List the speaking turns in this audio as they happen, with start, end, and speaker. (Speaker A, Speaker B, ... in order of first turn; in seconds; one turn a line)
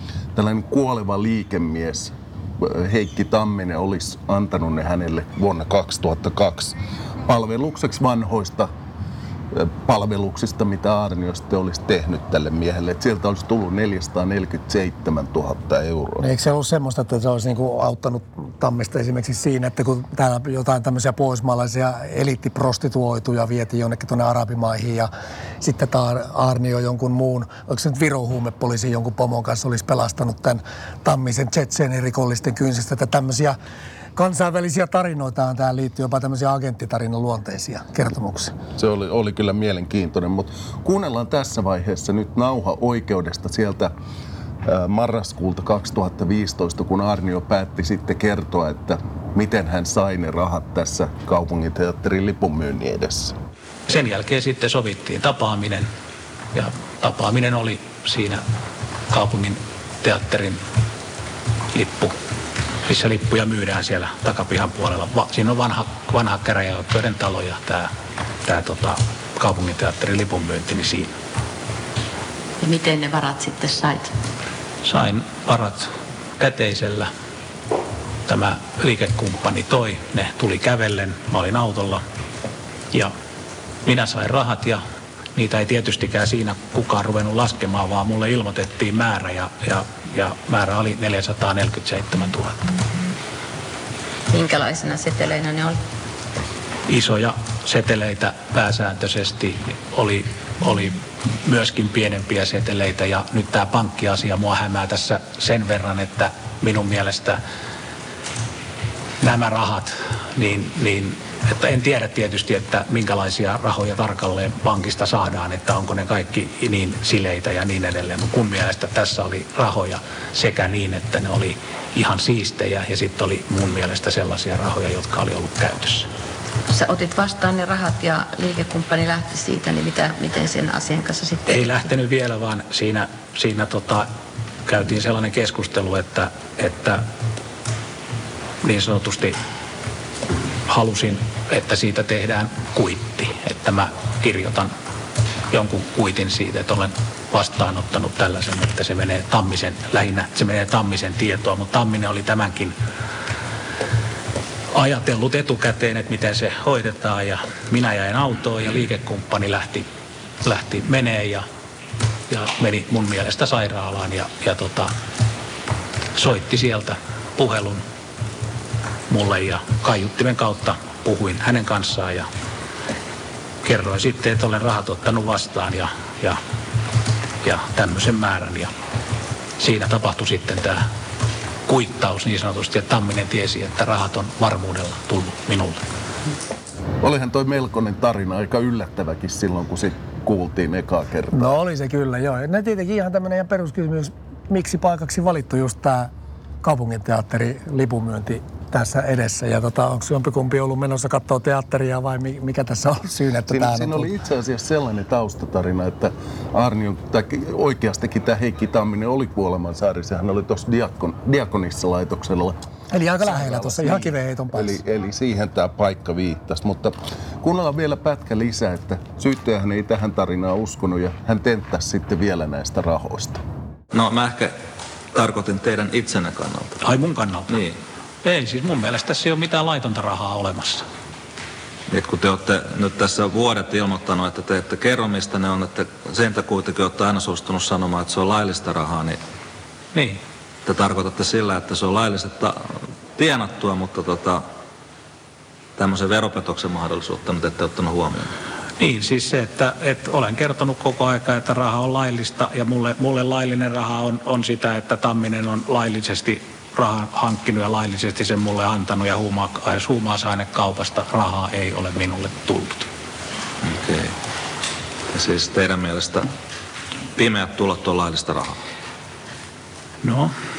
Speaker A: 0.3-8.7
Speaker A: 9.5-16.3
Speaker B: 16.2-25.1
Speaker B: 25.6-33.5
Speaker B: 34.1-38.5
Speaker A: 38.8-43.9
Speaker A: 44.6-53.3
Speaker C: 53.9-55.9
Speaker C: 56.5-58.4
Speaker C: 59.1-60.6
Speaker C: 61.7-62.1
Speaker C: 62.9-67.9
Speaker C: 68.4-71.2
Speaker D: 72.6-74.1
Speaker C: 74.8-75.9
Speaker C: 76.4-77.1
Speaker C: 78.3-82.0
Speaker C: 83.8-84.8
Speaker C: 85.3-92.6
Speaker D: 94.3-95.8
Speaker C: 96.9-107.4
Speaker C: 109.2-126.1
Speaker D: 126.7-131.8
Speaker C: 131.4-134.1
Speaker C: 134.7-137.0
Speaker C: 138.6-139.3
Speaker C: 140.7-144.7
Speaker C: 145.5-152.7
Speaker C: 154.7-159.9
Speaker C: 160.4-161.4
Speaker C: 162.3-164.9
Speaker C: 166.1-167.8
Speaker C: 169.1-172.3
Speaker C: 173.6-176.4
Speaker C: 177.4-178.7
Speaker C: 179.6-180.8
Speaker C: 181.7-185.8
Speaker A: 187.0-191.6
Speaker B: 191.3-196.1
Speaker B: 196.6-204.1
Speaker A: 203.5-212.6
Speaker B: 212.9-214.8
Speaker A: 213.2-223.4
Speaker E: 223.9-224.5
Speaker E: 225.1-226.8
Speaker C: 226.8-227.6
Speaker E: 227.5-227.7
Speaker C: 228.2-230.8
Speaker E: 231.9-239.2
Speaker C: 239.9-240.2
Speaker E: 240.7-242.6
Speaker E: 243.2-244.4
Speaker E: 245.8-248.3
Speaker C: 248.8-262.9
Speaker E: 263.6-264.1
Speaker E: 265.1-266.3
Speaker E: 267.1-268.6
Speaker C: 270.0-270.3